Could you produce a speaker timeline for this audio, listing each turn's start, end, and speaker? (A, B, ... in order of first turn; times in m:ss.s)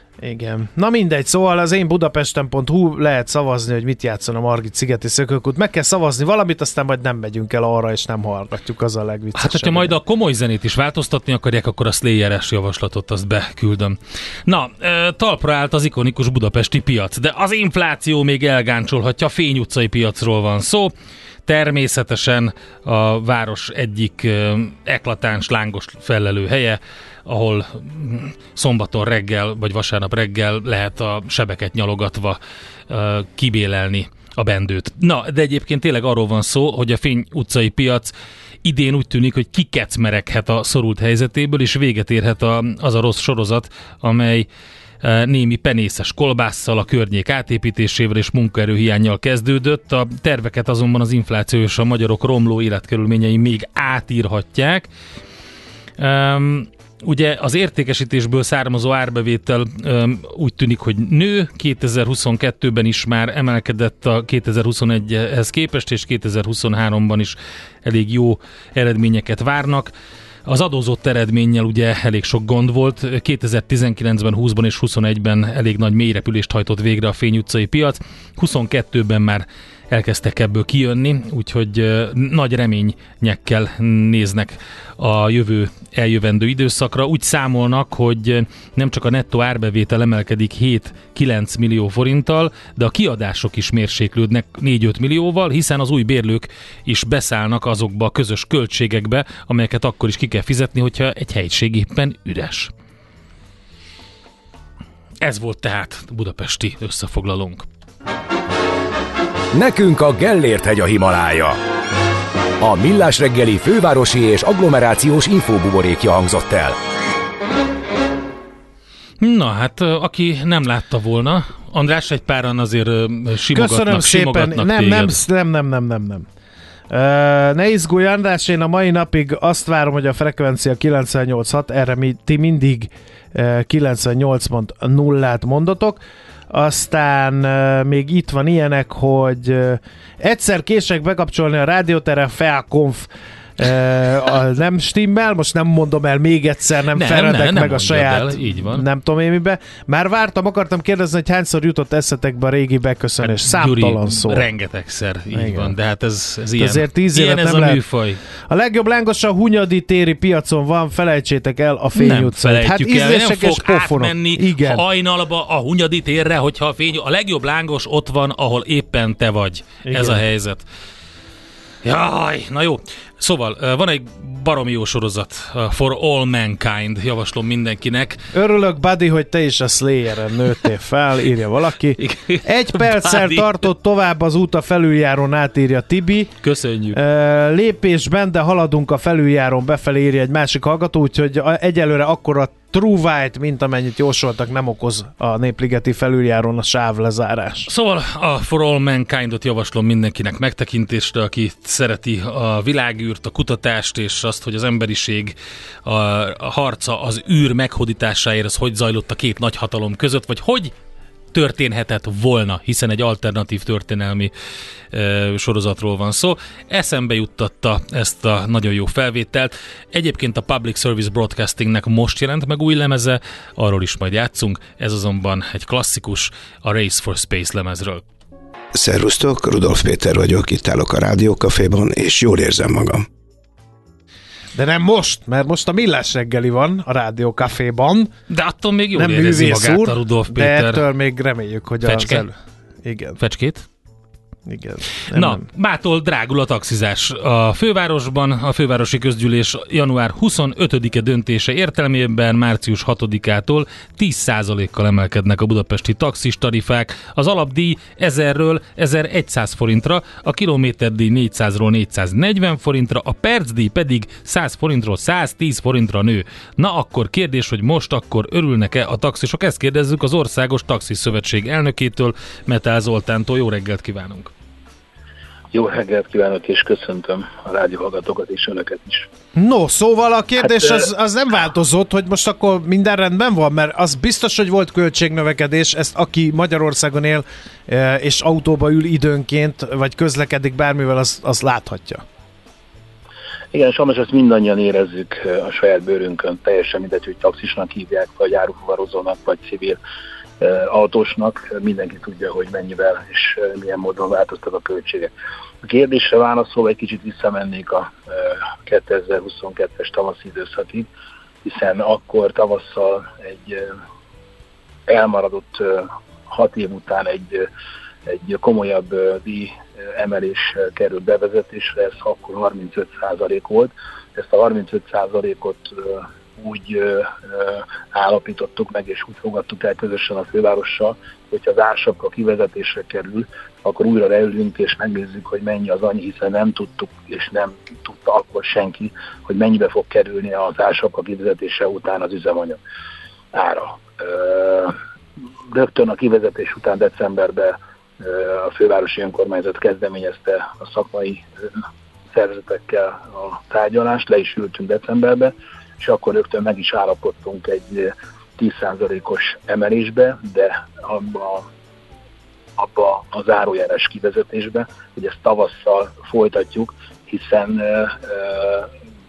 0:00.2-0:09.9 A
0:09.3-0:20.9 B
0:21.4-0:38.1 B
0:38.6-0:44.5 B
0:45.0-0:54.9 B
0:56.0-1:09.9 B
1:10.4-1:42.7 B
1:45.2-1:47.6 B
1:49.5-1:51.6 C
1:52.6-1:56.8 C
1:59.2-2:05.2 B
2:03.5-2:06.2 A
2:06.9-2:34.5 A
2:26.9-2:28.8 B
2:33.2-2:38.2 B
2:35.3-2:35.7 A
2:36.6-2:37.8 A
2:38.5-2:44.8 A
2:41.9-2:50.6 B
2:49.8-2:50.2 A
2:51.8-2:58.2 B
2:58.3-3:06.3 A
3:02.0-3:03.5 B
3:06.4-3:07.0 B
3:06.9-3:17.7 A
3:17.7-3:30.7 B
3:31.3-3:34.3 B
3:34.9-3:48.0 B
3:48.7-3:53.0 D
3:54.5-3:58.1 A
3:58.3-4:00.8 B
3:58.9-4:03.2 A
4:01.8-4:02.2 B
4:03.2-4:03.6 B
4:04.4-4:05.4 A
4:05.1-4:34.3 B
4:35.5-4:39.1 E
4:39.4-4:52.0 A
4:40.5-4:40.8 E
4:53.5-4:59.8 E
5:00.4-5:05.1 E
5:05.6-5:10.9 E
5:11.4-5:13.7 E
5:14.9-5:17.5 E
5:18.1-5:42.6 E
5:43.3-5:44.8 E
5:45.5-6:01.4 E
6:02.6-6:08.7 E